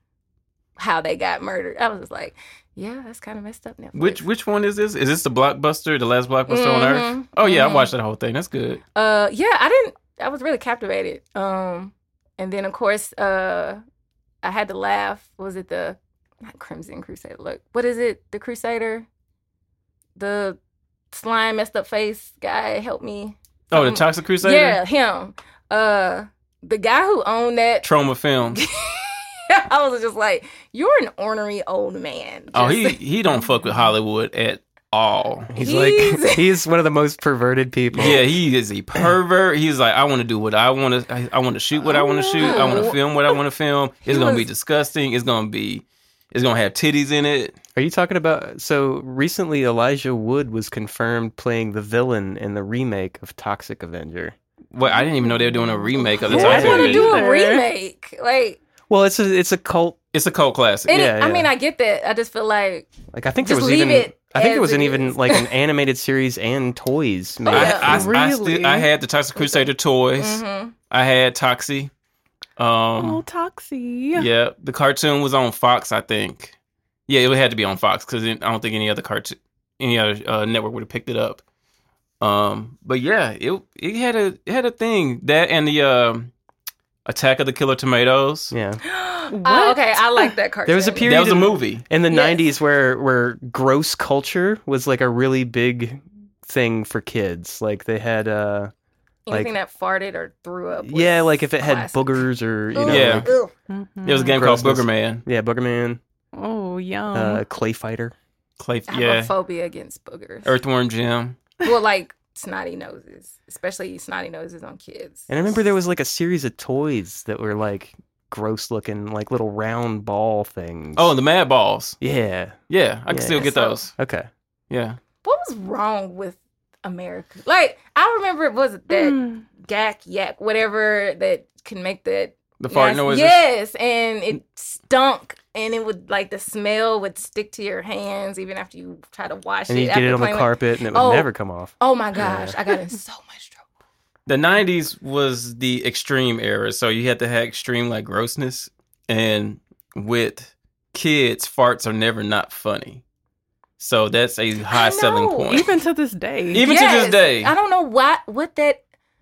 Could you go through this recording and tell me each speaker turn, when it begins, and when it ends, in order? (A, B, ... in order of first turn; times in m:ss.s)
0:00.8-0:04.2 A
0:03.9-0:08.8 B
0:06.5-0:07.9 A
0:08.9-0:13.8 A
0:14.4-0:19.1 A
0:20.2-0:20.6 A
0:21.1-0:27.9 A
0:23.7-0:24.8 B
0:27.8-0:28.6 B
0:28.5-0:33.0 A
0:32.5-0:35.5 B
0:35.5-0:38.3 C
0:35.6-0:36.6 A
0:37.9-0:47.6 B
0:41.8-0:42.9 D
0:42.4-0:43.0 A
0:44.0-0:44.4 A
0:47.7-0:54.3 C
0:54.7-0:57.2 B
0:54.8-0:57.7 D
0:56.2-0:58.6 A
0:56.2-0:57.0 C
0:58.9-1:00.0 C
1:00.1-1:01.0 B
1:00.9-1:05.5 A
1:00.9-1:01.5 C
1:03.1-1:08.1 C
1:07.4-1:07.9 A
1:07.5-1:11.9 B
1:07.9-1:08.9 D
1:09.4-1:10.7 A
1:12.6-1:13.2 B
1:13.0-1:14.3 D
1:14.1-1:16.5 B
1:17.1-1:21.4 B
1:22.2-1:26.3 B
1:27.0-1:28.5 B
1:28.5-1:28.8 C
1:28.8-1:31.3 A
1:29.3-1:30.3 D
1:30.7-1:38.7 C
1:31.0-1:31.8 B
1:32.1-1:32.4 A
1:39.3-1:43.5 A
1:40.8-1:43.3 C
1:42.8-1:43.3 B
1:43.7-1:44.4 D
1:44.0-1:45.2 B
1:44.3-1:46.0 C
1:46.3-1:47.4 D
1:47.1-1:48.1 C
1:48.6-1:49.3 B
1:48.9-1:50.6 A
1:50.4-1:51.4 B
1:51.6-1:55.5 A
1:55.3-2:01.1 C
2:01.0-2:02.0 B
2:02.0-2:04.3 C
2:02.7-2:03.9 B
2:03.4-2:03.8 A
2:04.7-2:05.0 B
2:05.2-2:23.6 A
2:08.9-2:09.4 D
2:12.6-2:13.4 B
2:19.7-2:22.6 C
2:24.2-2:33.0 B
2:33.8-2:35.7 B
2:34.7-2:35.6 A
2:35.5-2:36.7 D
2:36.5-2:37.5 B
2:36.6-2:38.8 A